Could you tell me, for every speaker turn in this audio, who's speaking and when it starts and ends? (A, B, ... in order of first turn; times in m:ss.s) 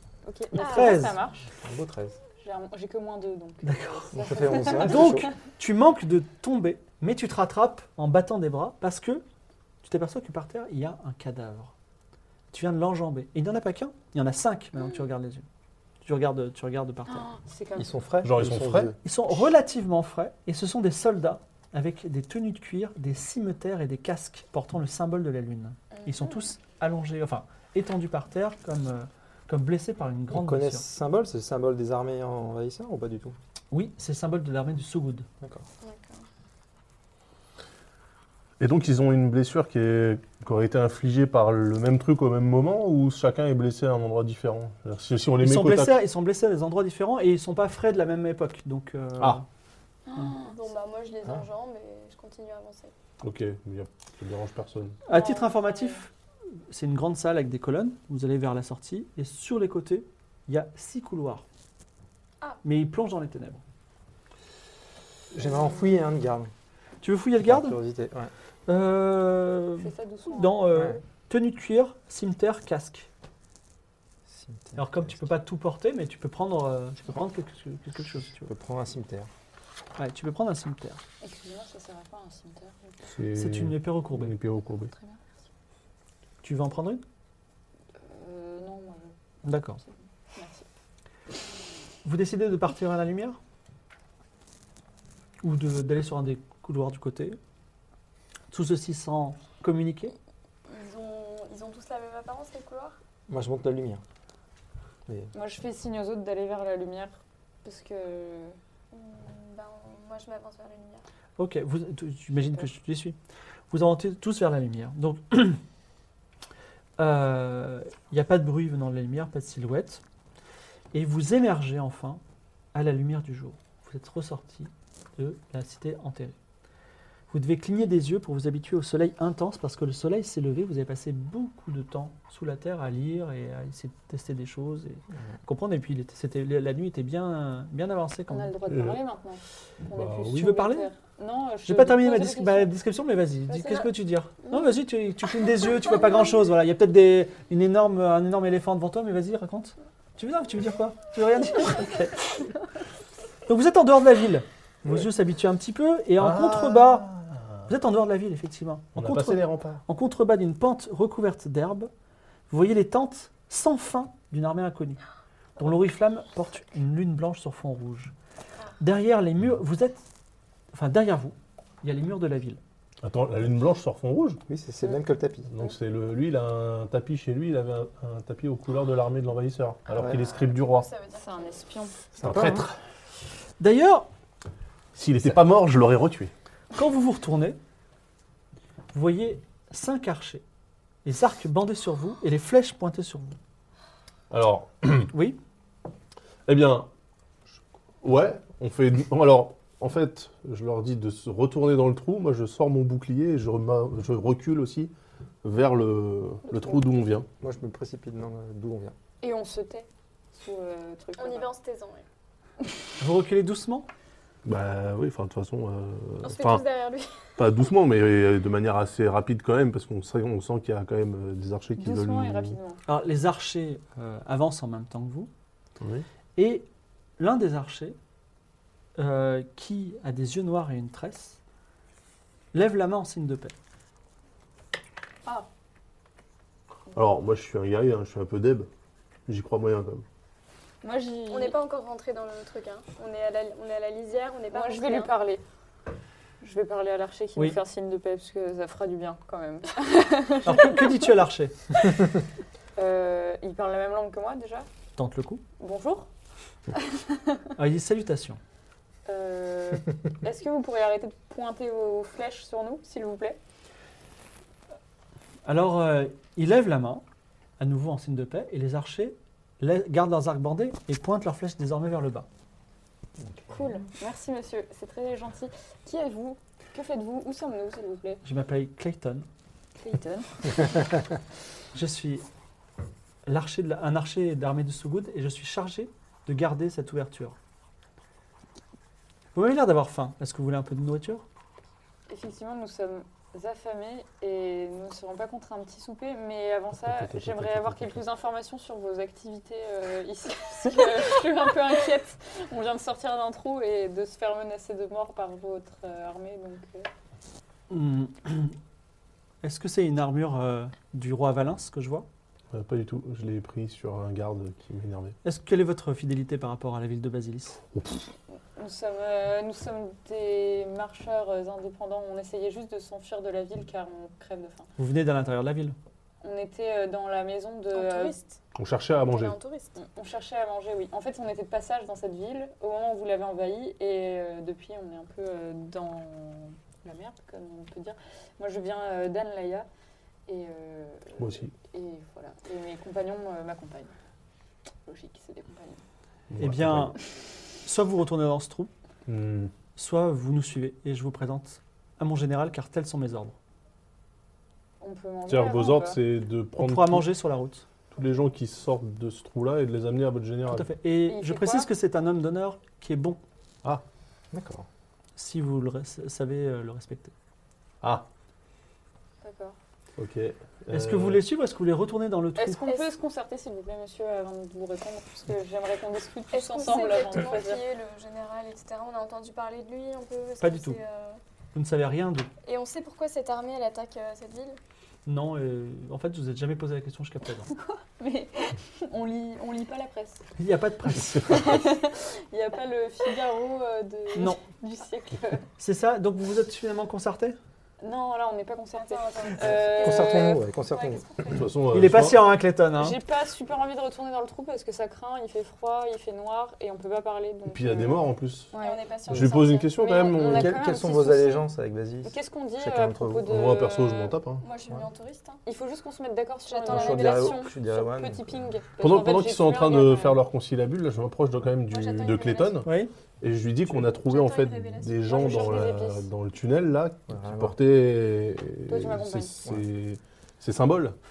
0:00.2-0:01.5 A
0:00.5-0:01.2 B
0:00.6-0:01.0 C
0:01.6-0:02.2 D
0:02.4-0:05.3 A
0:03.6-0:04.1 B
0:04.1-0:05.3 D
0:04.7-0:09.2 B
0:09.8-0:11.7 B
0:12.5-0:15.4 B
0:16.0-0:17.3 B
0:17.1-0:17.9 A
0:17.8-0:19.0 D
0:18.2-0:18.9 E
0:19.0-0:30.9 B
0:25.9-0:26.3 C
0:30.3-0:33.3 D
0:33.7-0:35.3 B
0:35.8-0:36.2 C
0:38.6-0:45.9 E
0:45.4-0:49.4 B
0:50.1-0:50.5 A
0:50.2-0:52.9 C
0:53.2-0:55.0 E
0:55.0-0:56.1 B
0:55.1-0:56.0 A
0:56.7-1:01.4 B
1:02.6-1:03.6 B
1:05.3-1:06.5 D
1:07.0-1:07.8 B
1:07.4-1:08.3 D
1:08.7-1:13.1 B
1:09.8-1:10.7 A
1:10.7-1:11.0 D
1:14.3-1:15.3 D
1:14.8-1:18.5 B
1:18.4-1:19.3 D
1:20.0-1:21.0 B
1:21.2-1:23.0 A
1:23.1-1:24.9 E
1:23.3-1:24.3 B
1:24.9-1:25.2 A
1:26.4-1:27.0 B
1:28.0-1:29.2 A
1:29.4-1:29.8 B
1:29.8-1:30.7 A
1:32.0-1:33.4 B
1:35.4-1:37.4 B
1:38.5-1:40.1 B
1:40.7-1:43.0 C
1:43.3-1:44.0 D
1:45.3-1:48.6 A
1:48.9-1:51.0 C
1:51.4-1:53.2 B
1:53.7-1:55.6 B
1:57.0-2:00.0 B
2:00.9-2:02.2 B
2:02.7-2:06.4 B
2:07.3-2:18.5 B
2:18.3-2:22.7 A
2:18.7-2:19.0 E
2:19.9-2:20.4 E
2:20.2-2:20.9 B
2:21.6-2:32.5 B
2:23.5-2:23.9 C
2:33.5-2:37.1 B
2:36.2-2:37.7 E
2:37.7-2:41.9 B
2:39.0-2:39.8 E
2:42.5-2:45.0 B
2:45.6-2:48.1 B
2:48.8-2:50.0 B
2:50.7-2:52.6 B
2:53.0-2:54.4 E
2:54.5-2:55.5 D
2:55.5-3:00.9 E
2:59.9-3:00.3 D
3:00.4-3:01.5 C
3:01.1-3:02.0 A
3:02.2-3:02.6 D
3:02.2-3:02.7 E
3:03.6-3:04.1 B
3:04.9-3:06.3 E
3:06.7-3:07.6 B
3:08.9-3:10.4 B
3:11.0-3:13.4 B
3:14.3-3:15.1 E
3:15.1-3:15.4 B
3:16.4-3:16.9 E
3:18.0-3:24.9 E
3:25.4-3:27.3 E
3:27.4-3:29.0 D
3:29.2-3:31.5 A
3:31.2-3:32.0 C
3:33.0-3:33.9 B
3:34.4-3:36.6 E
3:36.2-3:37.2 C
3:37.4-3:42.6 E
3:41.8-3:42.8 A
3:42.9-3:45.3 B
3:45.8-3:46.0 E
3:46.4-3:46.7 B
3:47.2-3:48.0 B
3:49.0-3:51.4 B
3:52.5-3:53.5 B
3:56.9-3:58.7 E
3:59.3-4:00.0 E
4:00.8-4:01.6 A
4:01.3-4:05.1 C
4:04.5-4:05.4 A
4:06.4-4:11.0 A
4:10.4-4:11.6 B
4:12.8-4:14.7 A
4:15.0-4:15.4 B
4:15.6-4:16.1 A
4:17.6-4:18.4 B
4:19.0-4:23.4 A
4:25.4-4:27.0 B
4:27.6-4:32.3 B
4:33.2-4:33.5 D
4:33.5-4:38.2 A
4:38.2-4:39.3 B
4:39.8-4:40.5 A
4:41.7-4:42.2 B
4:43.2-4:47.4 B
4:49.3-4:51.2 B
4:52.1-5:06.9 A
4:56.8-4:58.0 E
5:07.7-5:08.6 B
5:09.4-5:12.1 B
5:12.5-5:15.2 E
5:15.2-5:17.6 B
5:17.7-5:18.0 E
5:18.6-5:24.7 A
5:24.8-5:25.8 B
5:26.2-5:28.1 A
5:27.7-5:28.4 C
5:28.5-5:29.4 E
5:29.0-5:29.8 C
5:29.8-5:39.7 A
5:40.3-5:43.9 A
5:41.2-5:41.5 E
5:44.7-5:45.8 A
5:46.3-5:46.9 E
5:46.4-5:47.0 B
5:47.6-5:48.7 B
5:49.0-5:49.5 E
5:49.8-5:53.4 B
5:54.8-5:56.0 A
5:55.3-5:57.1 E
5:56.6-5:57.6 B
5:57.9-6:00.7 E
6:00.5-6:03.2 B
6:01.1-6:01.7 A
6:04.3-6:04.7 D
6:05.2-6:07.1 B
6:09.2-6:09.6 A
6:10.0-6:11.2 E
6:10.7-6:12.6 B
6:12.4-6:17.6 A
6:12.6-6:12.9 C
6:16.3-6:21.2 C
6:20.4-6:20.8 B
6:21.5-6:22.3 B
6:22.4-6:24.6 C
6:25.0-6:27.5 B
6:28.0-6:30.2 A
6:30.4-6:31.6 B
6:31.2-6:35.4 A
6:35.6-6:37.4 B
6:37.8-6:40.4 A
6:38.8-6:41.5 C
6:39.8-6:41.4 D
6:41.3-6:42.2 E
6:41.7-6:43.0 B
6:42.8-6:48.8 A
6:47.5-6:48.5 E
6:48.5-6:50.2 C
6:49.0-6:50.5 E
6:49.8-6:51.5 A
6:50.2-6:53.4 D
6:52.0-6:54.2 A
6:53.2-6:54.4 E
6:54.4-6:55.4 C
6:55.4-7:00.2 A
6:56.5-6:57.4 C
6:56.6-6:58.5 D
6:58.8-7:02.7 E
7:01.7-7:02.7 C
7:02.6-7:02.9 B
7:03.2-7:11.0 E
7:03.8-7:05.8 C
7:05.1-7:06.1 A
7:07.1-7:07.6 D
7:08.7-7:09.3 A